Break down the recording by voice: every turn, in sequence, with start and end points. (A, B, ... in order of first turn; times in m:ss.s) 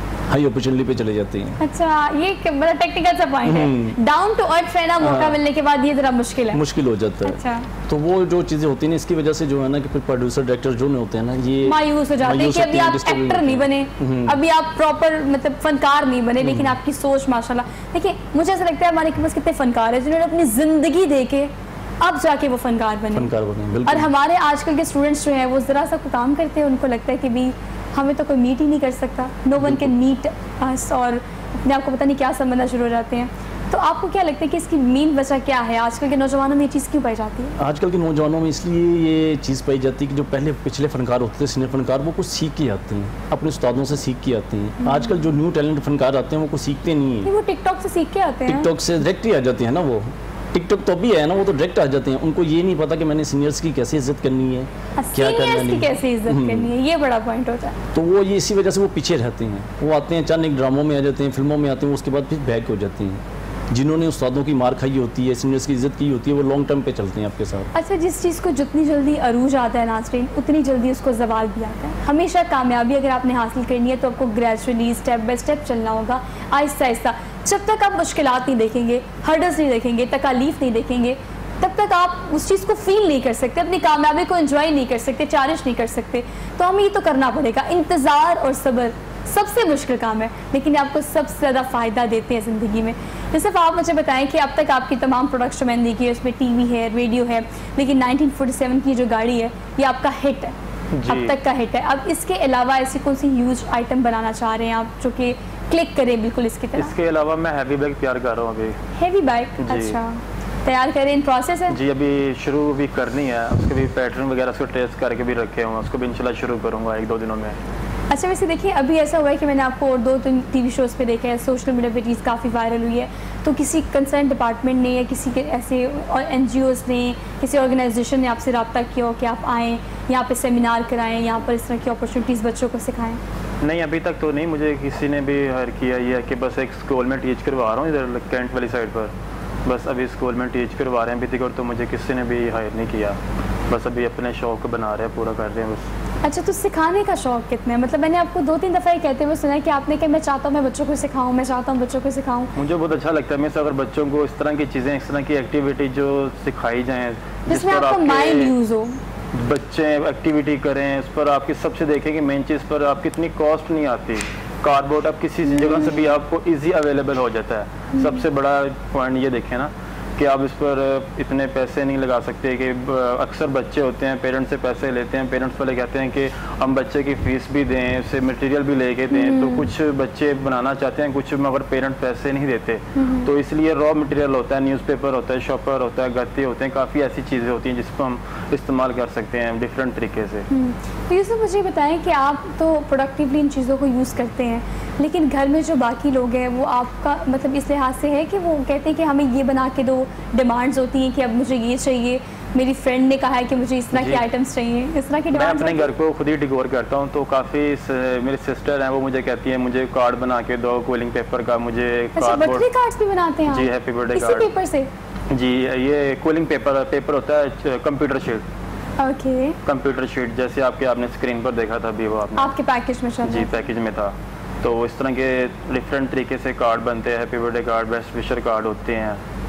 0:00.3-0:01.6 A
0:01.6-0:06.6 B
0:03.4-0:04.0 A
0:05.0-0:05.4 A
0:06.5-0:14.4 A
0:07.2-0:07.7 B
0:11.6-0:23.3 B
0:16.4-0:16.8 A
0:23.1-0:24.1 A
0:23.8-0:37.5 B
0:29.6-0:29.9 A
0:37.6-0:47.3 A
0:44.8-0:45.3 B
0:47.2-0:48.7 B
0:48.5-0:56.7 A
0:55.0-0:57.8 B
0:57.9-1:07.7 A
1:07.7-1:40.5 B
1:41.0-1:41.3 C
1:41.1-1:46.9 B
1:46.8-1:48.8 C
1:49.0-1:51.8 B
1:49.6-1:50.0 C
1:51.7-1:57.6 C
1:58.1-2:13.2 B
2:13.6-2:19.1 C
2:19.6-2:25.8 C
2:26.2-2:32.5 B
2:32.5-2:38.5 C
2:37.5-2:39.0 B
2:39.3-3:10.4 C
2:45.5-2:46.0 B
2:47.9-2:48.2 B
2:59.1-2:59.7 B
3:03.0-3:03.3 B
3:10.5-3:25.9 B
3:23.9-3:24.2 C
3:25.3-3:32.7 C
3:32.1-3:34.9 B
3:33.5-3:34.5 C
3:35.3-3:38.4 C
3:39.0-3:39.6 B
3:39.6-3:42.5 C
3:42.4-3:43.6 B
3:43.2-3:49.2 C